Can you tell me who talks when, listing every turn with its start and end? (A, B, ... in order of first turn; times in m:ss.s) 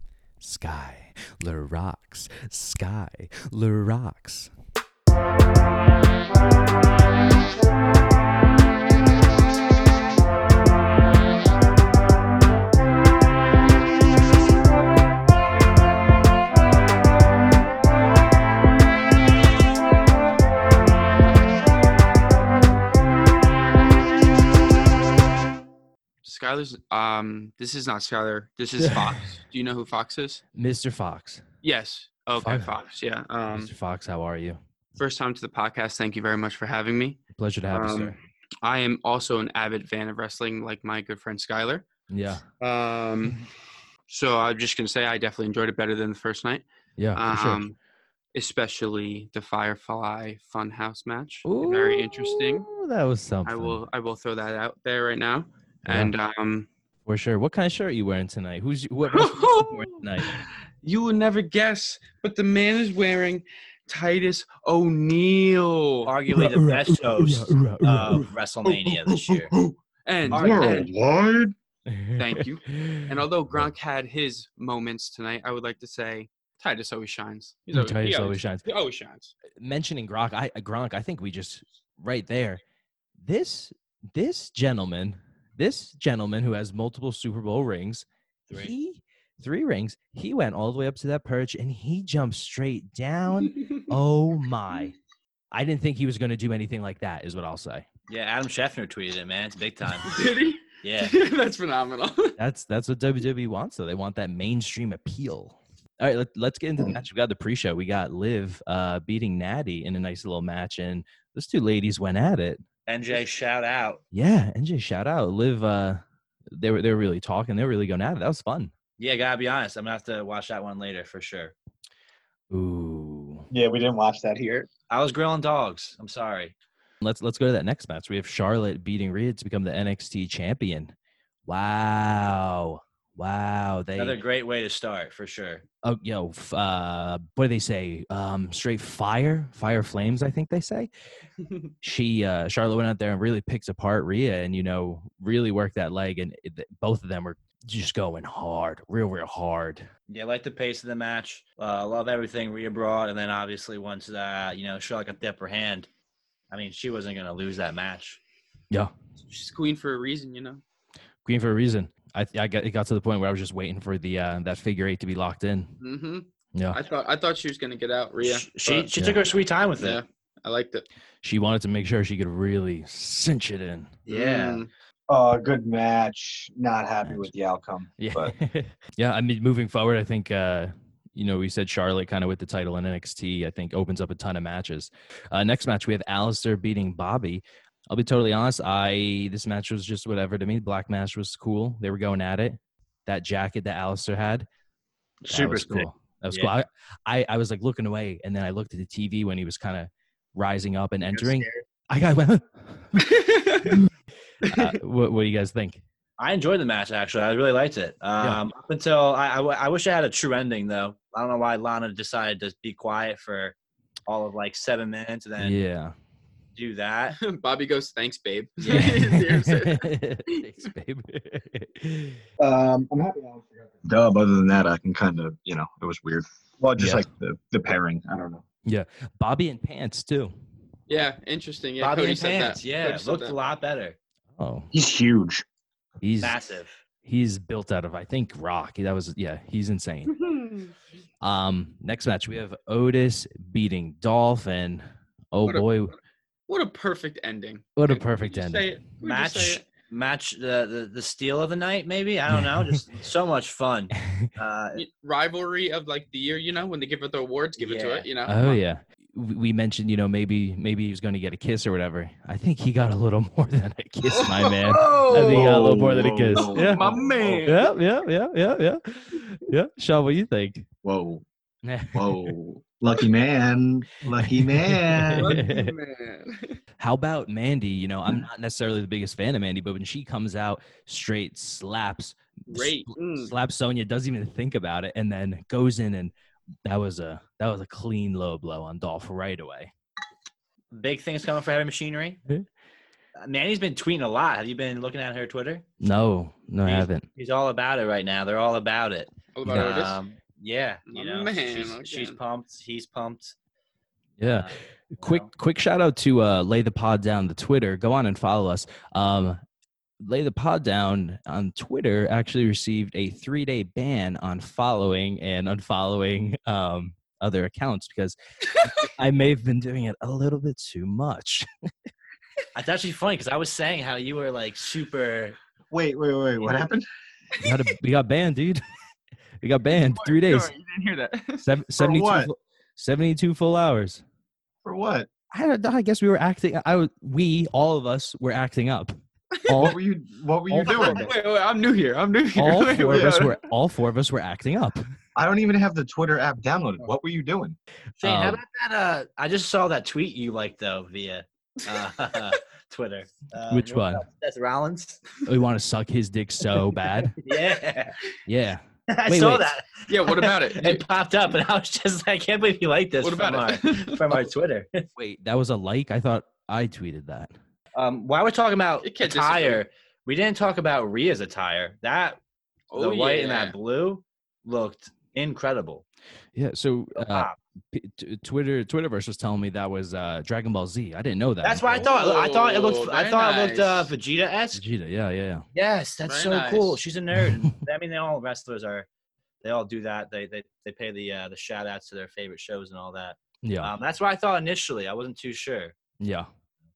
0:00.4-0:04.5 A
0:26.2-0:30.4 B
0:28.8-0:29.2 A
0:30.5-0:31.4 A
0:31.6-0:33.7 B
0:32.3-0:32.7 A
0:33.5-0:34.6 A
0:35.0-0:41.8 B
0:37.4-0:38.2 A
0:42.1-0:42.4 A
0:42.6-0:43.4 B
0:44.1-0:47.8 B
0:47.0-0:47.6 A
0:48.3-0:52.7 B
0:51.4-0:53.8 A
0:53.4-0:56.7 B
0:55.9-0:56.1 A
0:57.0-1:00.4 A
0:59.1-1:06.1 B
1:06.0-1:09.5 C
1:06.3-1:08.3 A
1:08.6-1:09.8 D
1:10.0-1:10.9 B
1:10.3-1:11.6 D
1:10.3-1:10.9 C
1:11.9-1:13.7 A
1:12.2-1:19.3 B
1:17.7-1:18.6 A
1:19.6-1:22.6 A
1:23.2-1:35.0 A
1:28.5-1:28.7 C
1:35.5-1:37.8 A
1:38.1-1:40.3 C
1:40.0-1:42.4 B
1:40.8-1:41.1 C
1:42.4-1:52.6 A
1:52.9-1:54.0 C
1:54.1-1:58.7 A
1:59.0-2:01.5 C
2:02.5-2:03.5 A
2:03.5-2:04.7 D
2:04.9-2:06.6 C
2:07.0-2:10.9 A
2:11.5-2:14.2 A
2:14.0-2:15.6 C
2:15.8-2:20.9 A
2:21.8-2:29.9 A
2:30.1-2:35.9 C
2:36.5-2:38.2 C
2:39.2-2:40.6 B
2:41.2-2:45.7 A
2:45.8-2:48.9 B
2:48.2-2:50.0 C
2:49.0-2:49.2 A
2:49.8-2:50.9 B
2:51.2-2:54.0 A
2:54.1-2:54.6 C
2:54.1-2:54.7 B
2:55.1-2:58.3 D
2:57.0-2:57.3 A
2:58.0-3:14.5 A
3:15.2-3:16.5 C
3:15.3-3:23.0 A
3:21.2-3:21.6 C
3:23.0-3:23.8 B
3:24.4-3:25.8 A
3:24.4-3:24.8 B
3:26.2-3:33.6 C
3:28.2-3:28.4 A
3:34.1-3:35.6 C
3:35.4-3:36.0 A
3:36.6-3:37.2 C
3:37.1-3:40.5 B
3:38.6-3:42.2 A
3:42.4-3:48.4 D
3:46.8-3:47.1 A
3:48.6-3:50.3 A
3:50.9-3:53.4 B
3:51.8-3:54.0 C
3:54.4-3:54.7 A
3:54.7-3:55.4 D
3:56.0-3:56.4 A
3:56.2-3:56.8 C
3:57.0-4:00.1 A
4:00.1-4:00.7 B
4:01.2-4:06.0 A
4:05.5-4:05.8 B
4:06.5-4:09.6 B
4:07.8-4:08.7 A
4:09.0-4:14.8 C
4:12.3-4:12.8 A
4:14.0-4:14.3 A
4:14.8-4:18.6 B
4:17.6-4:18.1 C
4:18.3-4:26.9 A
4:24.1-4:25.5 B
4:25.1-4:27.5 D
4:26.3-4:27.8 B
4:27.4-4:30.7 A
4:30.8-4:31.2 D
4:31.6-4:32.3 A
4:31.9-4:35.4 D
4:34.1-4:35.7 A
4:35.1-4:36.6 B
4:36.8-4:46.1 A
4:42.5-4:43.3 B
4:46.6-4:49.7 A
4:50.7-4:52.2 C
4:53.2-4:55.6 C
4:55.8-4:57.1 A
4:56.6-5:03.3 C
4:59.3-5:00.0 B
5:00.9-5:02.2 B
5:04.2-5:09.4 A
5:04.3-5:05.3 C
5:10.0-5:21.5 A
5:22.5-5:25.4 C
5:25.7-5:26.8 D
5:27.4-5:28.6 A
5:29.4-5:30.5 A
5:29.7-5:31.4 B
5:31.4-5:34.0 A
5:31.8-5:32.3 D
5:34.6-5:35.1 D
5:35.3-5:39.8 A
5:39.4-5:39.7 B
5:39.5-5:41.1 D
5:40.5-5:41.1 A
5:40.6-5:43.5 B
5:42.4-5:44.8 A
5:45.2-5:47.6 D
5:48.0-5:48.4 A
5:48.0-5:55.1 C
5:53.5-5:54.0 A
5:55.2-5:57.1 A
5:57.2-5:58.0 C
5:58.2-5:59.5 A
5:58.9-6:04.9 C
5:59.9-6:00.8 B
6:03.0-6:04.2 B
6:05.0-6:07.3 A
6:07.7-6:12.2 C
6:08.8-6:09.6 B
6:12.7-6:13.6 B
6:12.8-6:15.8 C
6:16.3-6:21.9 A
6:16.9-6:17.4 C
6:21.4-6:24.6 C
6:21.8-6:23.9 B
6:24.5-6:25.4 A
6:25.5-6:28.9 C
6:26.1-6:26.8 B
6:29.4-6:35.8 C
6:33.4-6:33.7 A
6:36.0-6:36.3 A